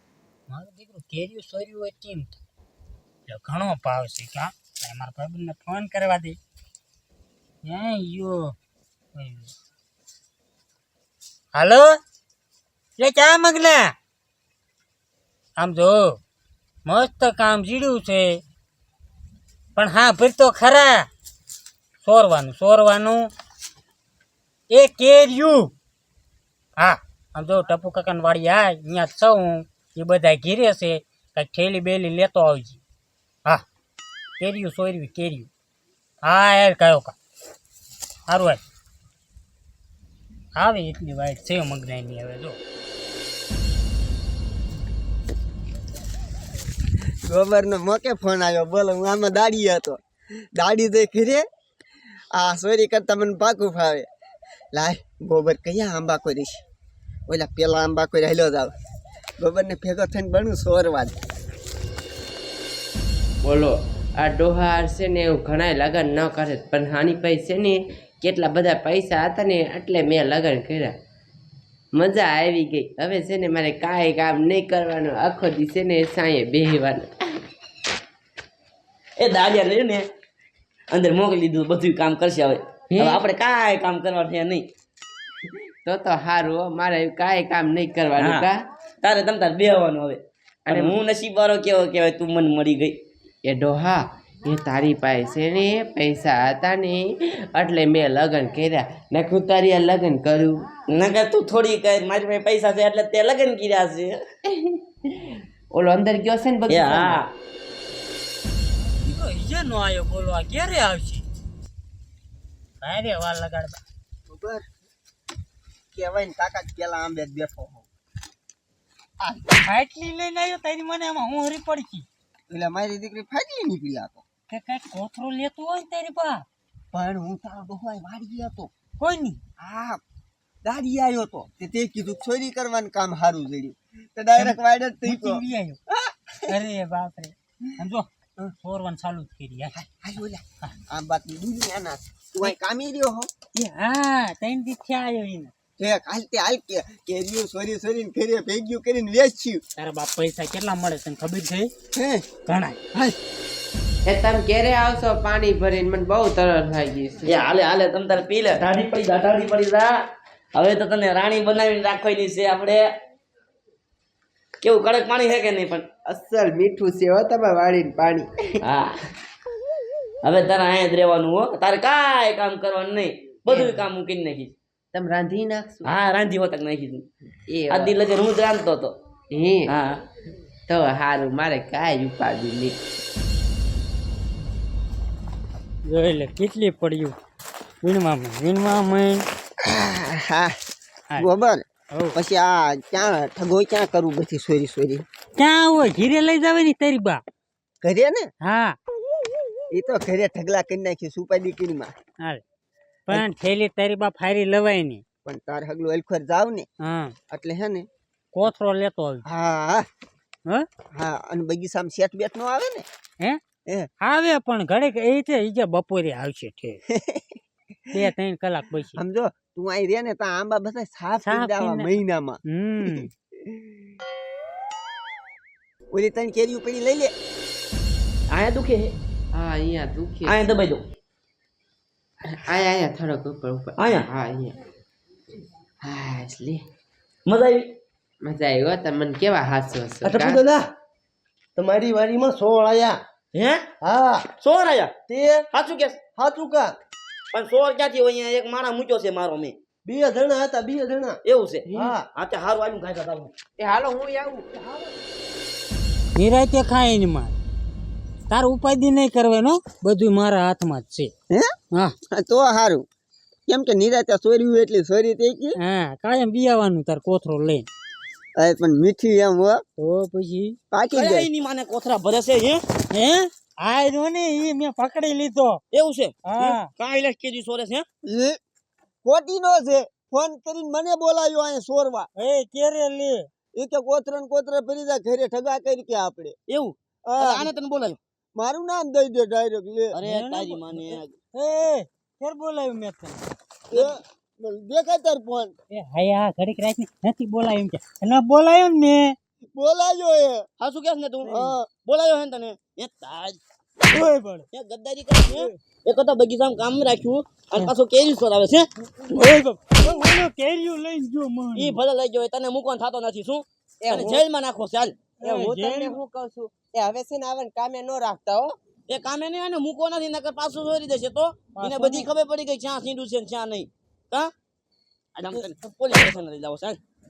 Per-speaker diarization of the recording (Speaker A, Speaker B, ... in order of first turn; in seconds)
Speaker A: 0.5-2.4, 3.3-6.4, 7.6-8.5, 9.1-9.5, 11.5-12.0, 13.0-13.9, 15.6-16.2, 16.9-18.4, 19.7-21.1, 22.0-23.3, 24.7-25.7, 26.8-32.8, 34.4-35.5, 36.2-37.1, 38.3-38.6, 40.5-42.6, 109.0-111.2, 112.8-113.8, 119.6-122.1, 124.5-126.5, 129.0-129.4, 134.4-135.8, 136.5-139.8, 143.5-145.5, 149.8-151.7, 152.4-152.8, 185.9-187.1, 187.8-189.2, 191.9-192.2, 195.4-197.2, 198.4-198.8, 203.1-205.0, 206.8-207.1, 208.3-209.2, 214.0-216.8, 217.9-219.0, 221.2-223.1, 256.1-257.4, 258.3-261.1, 265.6-267.7, 269.8-270.6, 272.9-275.6, 276.2-276.7, 282.2-283.3, 290.0-293.2, 295.7-299.1, 303.8-304.4, 309.1-311.8, 315.2-316.0, 321.5-322.1
Speaker B: 47.2-50.0, 50.5-51.4, 52.3-54.1, 54.7-56.6, 57.3-58.7, 59.4-61.1, 114.3-114.6, 115.9-117.9, 119.2-119.5, 122.5-124.2, 126.9-128.7, 129.6-130.0, 130.6-136.5, 139.7-143.3, 145.8-149.6, 151.9-152.2, 189.6-190.5, 191.2-191.6, 192.1-195.0, 197.8-198.3, 199.7-201.9, 205.2-206.7, 207.3-207.8, 209.2-209.8, 210.9-212.8, 216.9-217.3, 218.9-223.9, 225.9-227.1, 262.1-262.8, 263.5-265.6, 268.4-269.6, 270.7-271.3, 278.0-278.4, 279.0-282.1, 283.5-286.3, 287.1-287.5, 288.4-290.0, 293.7-295.5, 299.5-300.5, 301.3-301.7
Speaker C: 63.4-70.9, 71.9-77.2, 82.9-83.2, 85.8-88.6, 90.7-91.0, 93.4-100.7, 104.6-107.2, 154.1-157.4, 166.1-168.3, 173.5-173.8, 174.9-175.9, 177.5-178.0, 179.3-179.7, 180.7-182.8, 229.3-230.6, 232.3-234.6, 235.8-236.6, 238.2-240.4, 251.7-251.9, 253.6-254.4, 313.8-314.2, 315.2-318.6
Speaker D: 79.2-80.1, 80.9-84.7, 88.2-88.5, 89.0-93.0, 100.9-104.2, 106.7-107.3, 157.2-159.9, 160.5-162.8, 164.6-165.9, 168.6-169.0, 170.2-174.5, 175.8-177.1, 177.7-178.9, 179.7-180.0, 228.3-228.9, 230.2-230.8, 233.8-234.1, 237.3-237.7, 240.0-240.6, 243.3-246.1, 247.3-249.6, 251.2-253.3, 270.9-272.6, 275.7-277.9, 286.5-288.0, 289.9-291.1, 300.6-303.4, 304.5-309.6, 311.5-315.0, 318.9-324.3, 325.1-326.8
Speaker E: 241.6-243.0, 243.8-244.2, 245.1-245.5, 246.2-246.7, 249.8-251.2, 251.7-252.0